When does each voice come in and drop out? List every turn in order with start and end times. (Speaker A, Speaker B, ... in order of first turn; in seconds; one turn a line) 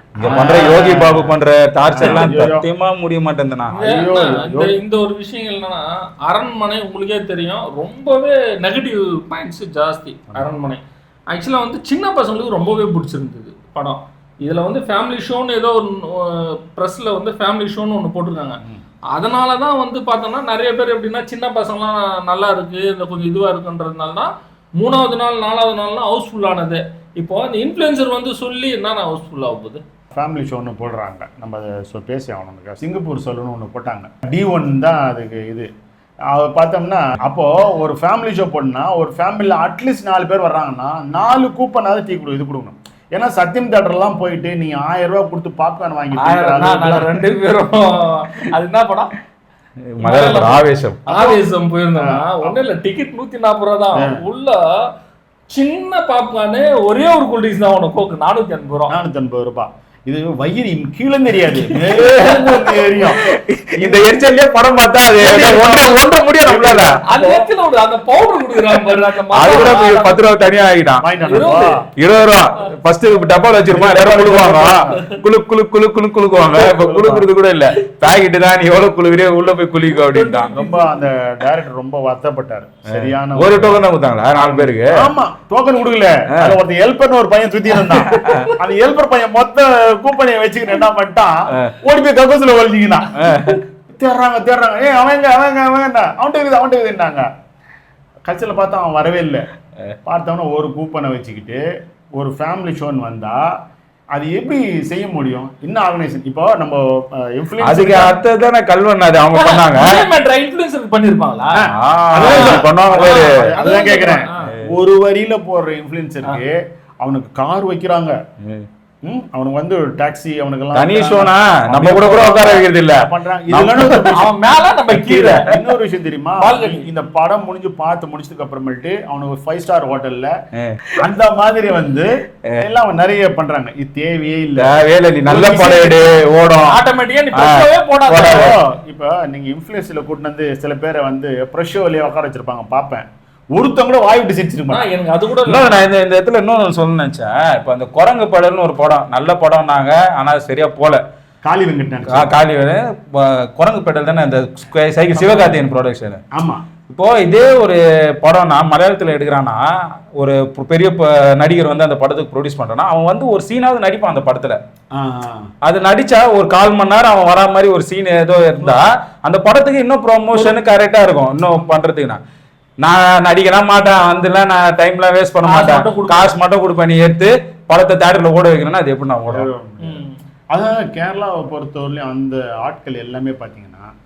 Speaker A: 0.2-3.8
Speaker B: 0.2-1.3
Speaker C: 0.5-0.8
Speaker B: 1.9-2.6
Speaker C: 3.7-18.6
Speaker B: 3.8-4.8
Speaker C: 19.1-29.8
Speaker B: 30.1-35.7
Speaker B: 36.3-47.2
Speaker C: 46.1-49.1
Speaker A: 50.0-51.1
Speaker C: 50.0-54.6
Speaker B: 51.1-51.4
Speaker B: 52.0-52.6
Speaker B: 53.9-54.2
Speaker C: 55.5-58.9
Speaker B: 58.9-63.2
Speaker C: 61.5-63.3
Speaker A: 61.9-67.3
Speaker B: 63.8-64.1
Speaker B: 65.2-67.2
Speaker C: 65.4-65.8
Speaker C: 67.0-70.2
Speaker A: 68.7-80.5
Speaker B: 71.0-71.8
Speaker C: 71.3-71.8
Speaker B: 73.7-75.0
Speaker B: 76.3-77.3
Speaker C: 79.9-81.1
Speaker B: 80.5-93.1
Speaker A: 83.0-85.1
Speaker C: 87.8-88.5
Speaker A: 88.0-88.5
Speaker A: 93.2-93.6
Speaker B: 93.9-97.3
Speaker B: 98.3-99.5
Speaker B: 100.0-101.6
Speaker B: 102.2-103.5
Speaker B: 104.2-108.2
Speaker A: 107.6-110.0
Speaker C: 109.3-111.6
Speaker B: 111.5-118.2
Speaker A: 111.7-113.3
Speaker C: 112.2-114.5
Speaker A: 114.3-114.6
Speaker B: 119.0-124.3
Speaker A: 120.7-124.2
Speaker C: 124.1-125.6
Speaker A: 124.9-125.5
Speaker B: 125.5-130.3
Speaker C: 126.4-126.9
Speaker A: 130.6-130.9
Speaker B: 131.0-136.1
Speaker A: 134.6-136.8
Speaker C: 136.7-138.5
Speaker A: 137.3-138.5
Speaker B: 138.1-143.0
Speaker B: 143.5-144.9
Speaker C: 144.7-145.8
Speaker A: 145.4-151.0
Speaker B: 151.4-152.3
Speaker A: 152.1-156.2
Speaker C: 155.2-155.6
Speaker B: 156.3-156.6
Speaker A: 156.9-159.6
Speaker A: 160.2-164.6
Speaker B: 164.9-165.5
Speaker A: 165.6-172.2
Speaker C: 170.3-170.7
Speaker A: 172.8-179.5
Speaker C: 175.4-176.3
Speaker B: 179.3-183.9
Speaker C: 179.8-180.1